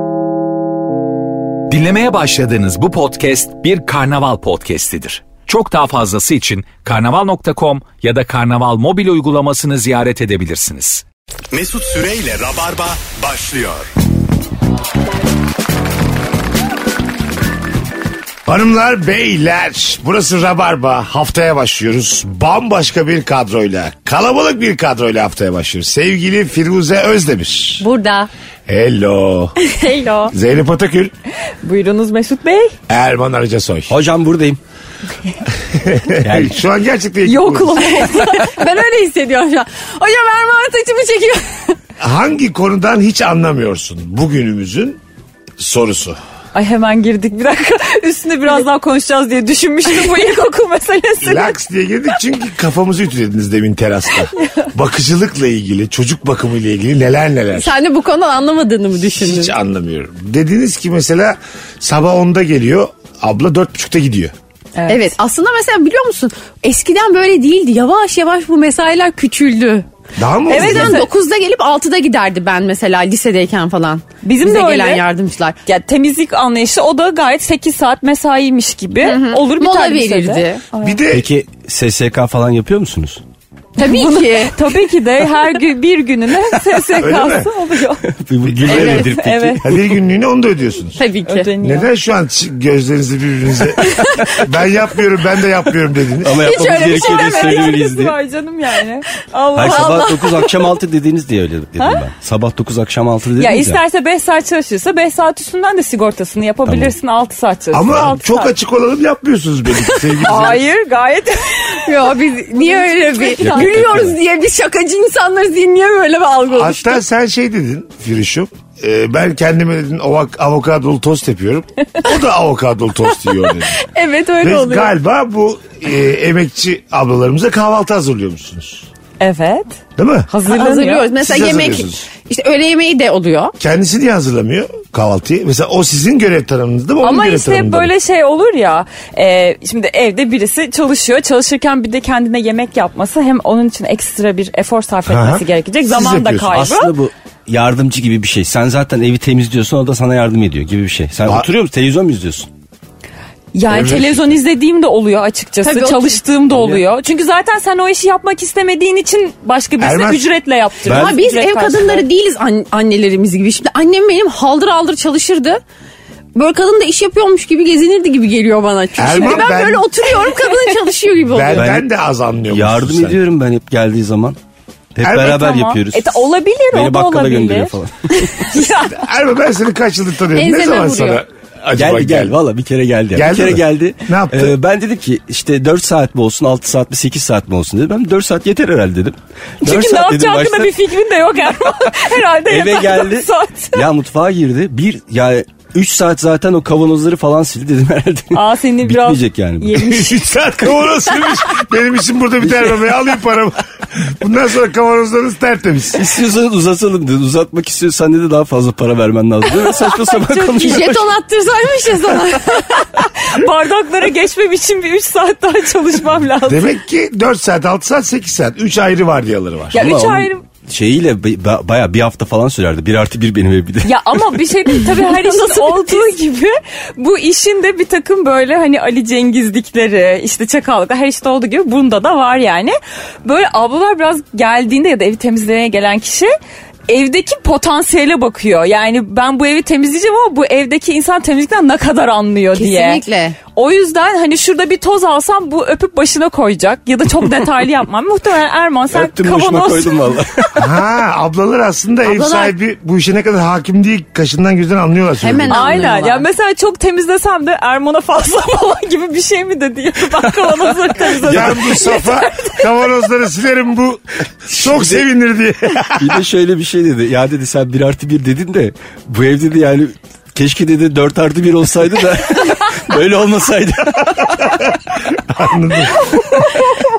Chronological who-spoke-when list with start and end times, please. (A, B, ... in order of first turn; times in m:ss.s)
0:01.7-0:11.0 A
0:11.5-0:13.9 B
0:18.4-0:27.8 C
0:27.8-0:28.3 D
0:28.7-0:29.6 C
0:29.7-0:30.2 D
0:30.0-0:30.3 E
0:30.3-0:31.1 C
0:31.6-0:32.8 E
0:32.9-0:33.9 C
0:33.9-0:34.6 F
0:35.6-0:38.0 C
0:36.2-0:36.6 F
0:37.2-0:38.4 E
0:37.6-0:41.8 D
0:42.0-0:45.0 C
0:45.6-0:46.2 C
0:46.5-0:51.6 E
0:51.2-0:57.8 C
0:54.3-0:54.7 E
0:57.5-0:59.5 D
0:59.1-1:04.3 C
1:04.7-1:05.1 E
1:04.9-1:09.9 D
1:10.2-1:11.0 C
1:10.5-1:11.1 E
1:10.5-1:15.6 D
1:14.2-1:15.0 E
1:15.6-1:21.0 E
1:19.0-1:20.6 D
1:20.8-1:21.3 C
1:21.1-1:23.2 F
1:23.8-1:24.6 D
1:23.8-1:28.0 E
1:27.0-1:27.5 C
1:28.1-1:29.9 F
1:28.4-1:31.0 C
1:28.7-1:29.7 E
1:31.0-1:31.5 D
1:31.2-1:31.9 E
1:31.6-1:36.5 C
1:36.2-1:38.2 F
1:36.3-1:37.8 D
1:36.6-1:40.4 E
1:39.5-1:40.5 D
1:39.5-1:43.8 F
1:43.4-1:48.5 E
1:46.6-1:46.9 F
1:47.7-1:50.6 C
1:50.1-1:54.1 E
1:51.7-1:57.0 D
1:53.4-1:54.2 F
1:56.5-2:03.8 C
2:04.0-2:04.9 D
2:04.4-2:08.9 C
2:09.2-2:09.8 E
2:10.0-2:10.3 C
2:10.3-2:13.5 D
2:10.4-2:11.1 E
2:11.2-2:12.0 C
2:13.6-2:17.9 C
2:17.0-2:26.9 E
2:25.1-2:26.5 C
2:26.5-2:32.5 F
2:33.5-2:42.0 E
2:33.7-2:34.4 C
2:35.6-2:36.2 D
2:39.8-2:40.3 C
2:40.8-2:41.2 F
2:40.9-2:45.6 D
2:46.3-2:51.6 D
2:49.0-2:49.9 C
2:50.5-2:50.8 E
2:51.2-2:53.2 C
2:51.5-2:51.8 F
2:52.5-2:54.4 F
2:54.9-2:58.4 F
2:55.0-2:55.5 C
2:55.2-2:57.7 E
2:58.4-2:59.0 E
2:58.9-3:02.3 C
3:00.3-3:01.2 D
3:01.8-3:10.8 F
3:03.1-3:04.5 C
3:09.6-3:13.8 E
3:12.4-3:19.9 F
3:18.3-3:20.4 E
3:19.7-3:26.0 C
3:22.4-3:22.9 F
3:26.0-3:31.0 F
3:29.6-3:30.9 E
3:30.6-3:32.9 D
3:32.8-3:36.7 E
3:36.4-3:39.8 C
3:39.7-3:40.4 E
3:39.7-3:44.4 F
3:43.8-3:56.3 E
3:45.0-3:46.1 D
3:56.9-4:03.0 E
4:02.6-4:03.4 D
4:03.5-4:10.6 E
4:08.9-4:10.5 F
4:10.6-4:15.9 C
4:12.0-4:12.5 D
4:15.2-4:16.2 D
4:15.5-4:22.8 E
4:21.1-4:21.7 F
4:21.2-4:26.2 C
4:24.5-4:25.0 F
4:26.0-4:34.6 F
4:34.4-4:36.1 C